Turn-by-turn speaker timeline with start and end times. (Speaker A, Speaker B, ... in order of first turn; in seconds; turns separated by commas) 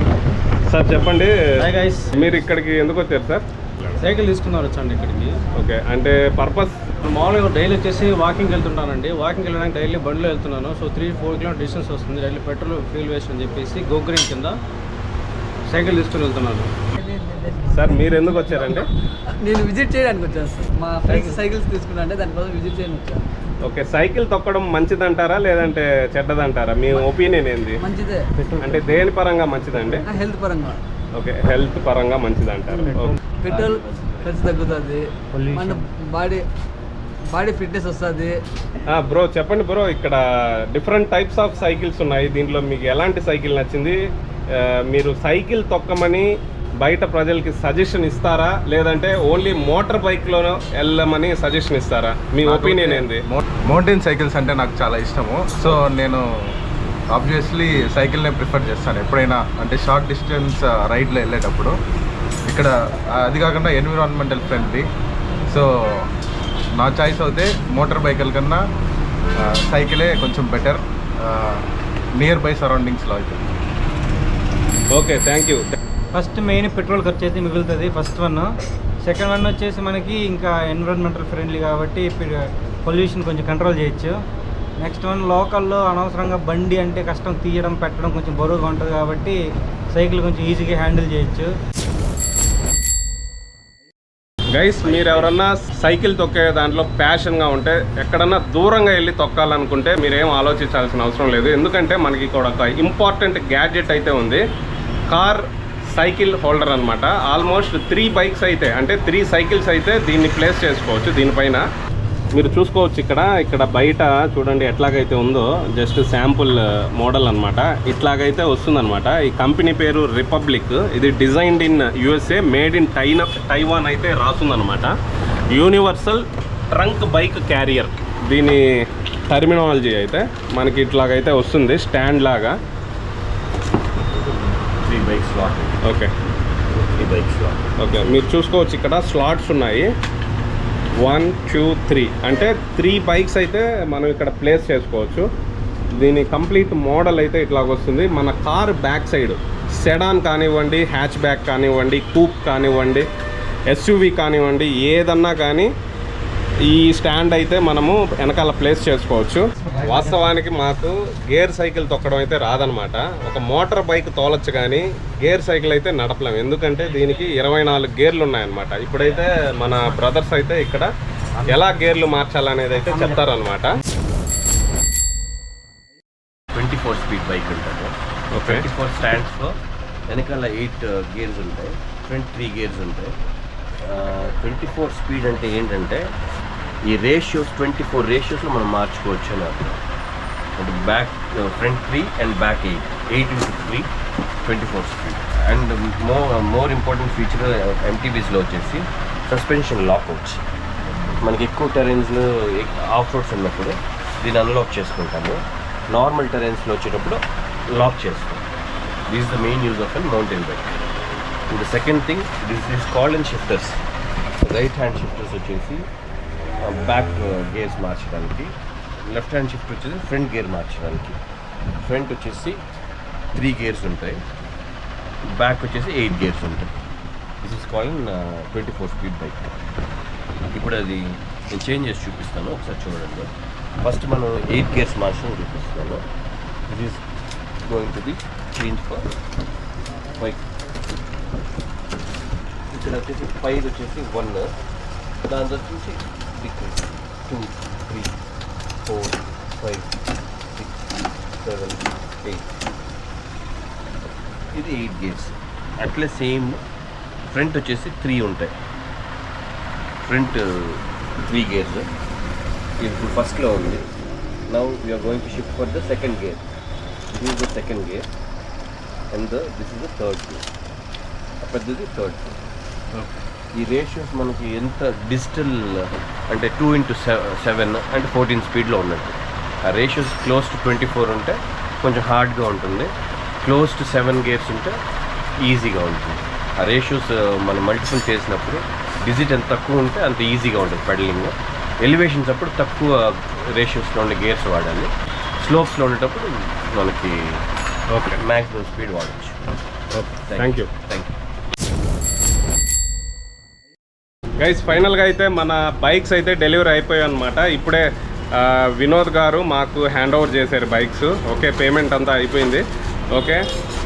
Speaker A: 0.7-4.0, Speaker B: 1.6-2.1, Speaker B: 4.0-4.8, Speaker C: 4.1-5.4, Speaker A: 5.5-7.0, Speaker C: 7.0-14.6, Speaker C: 15.7-16.7, Speaker D: 16.9-23.2, Speaker A: 17.7-18.9, Speaker A: 23.6-27.8, Speaker D: 27.8-28.3, Speaker A: 28.6-30.1, Speaker D: 30.0-30.8, Speaker A: 31.1-33.2, Speaker D: 33.4-36.5, Speaker D: 37.3-38.4, Speaker A: 38.9-44.0, Speaker A: 44.5-46.3, Speaker A: 46.8-53.2, Speaker E: 52.4-56.2, Speaker E: 57.1-61.8, Speaker E: 62.5-64.8, Speaker E: 65.5-66.1, Speaker E: 66.8-68.6, Speaker E: 69.4-71.6, Speaker E: 72.2-73.4, Speaker A: 74.9-75.7, Speaker B: 76.1-78.5, Speaker B: 79.1-84.1, Speaker B: 84.8-89.4, Speaker B: 89.9-91.5, Speaker A: 94.5-104.4, Speaker F: 94.8-95.3, Speaker A: 105.1-111.7, Speaker A: 112.3-124.9, Speaker A: 125.5-128.6, Speaker A: 129.3-132.6, Speaker F: 134.8-135.8, Speaker A: 135.8-136.1, Speaker F: 137.0-137.7, Speaker A: 137.8-139.9, Speaker A: 141.0-145.3, Speaker A: 145.9-153.1, Speaker A: 153.7-155.7, Speaker A: 156.7-170.9, Speaker A: 171.5-173.8, Speaker F: 176.5-179.6, Speaker A: 178.3-178.7, Speaker F: 180.1-183.2, Speaker F: 183.8-186.1, Speaker F: 186.8-189.8, Speaker F: 190.6-193.9, Speaker F: 194.4-200.4, Speaker F: 201.2-208.4, Speaker F: 209.1-210.8, Speaker F: 211.5-213.8, Speaker F: 214.4-215.9, Speaker F: 216.6-221.2, Speaker F: 221.8-222.7, Speaker F: 223.3-224.2, Speaker F: 225.3-226.7, Speaker F: 227.4-229.5, Speaker F: 230.5-233.3, Speaker F: 233.8-236.0, Speaker F: 236.7-237.0, Speaker F: 237.7-239.1, Speaker F: 242.7-244.5, Speaker F: 245.3-248.2, Speaker F: 248.8-249.9, Speaker F: 250.6-250.9, Speaker F: 251.4-252.5, Speaker F: 254.5-256.6, Speaker F: 257.3-258.5, Speaker F: 260.1-261.9, Speaker F: 262.8-263.8, Speaker F: 264.5-266.4, Speaker F: 267.1-268.1, Speaker F: 269.1-270.4, Speaker F: 271.4-272.3, Speaker F: 273.5-282.9, Speaker F: 283.4-284.8, Speaker F: 285.4-297.4, Speaker A: 297.9-298.2, Speaker F: 298.2-299.4, Speaker A: 299.9-300.7, Speaker F: 300.3-301.2, Speaker A: 304.4-307.8, Speaker A: 308.4-313.4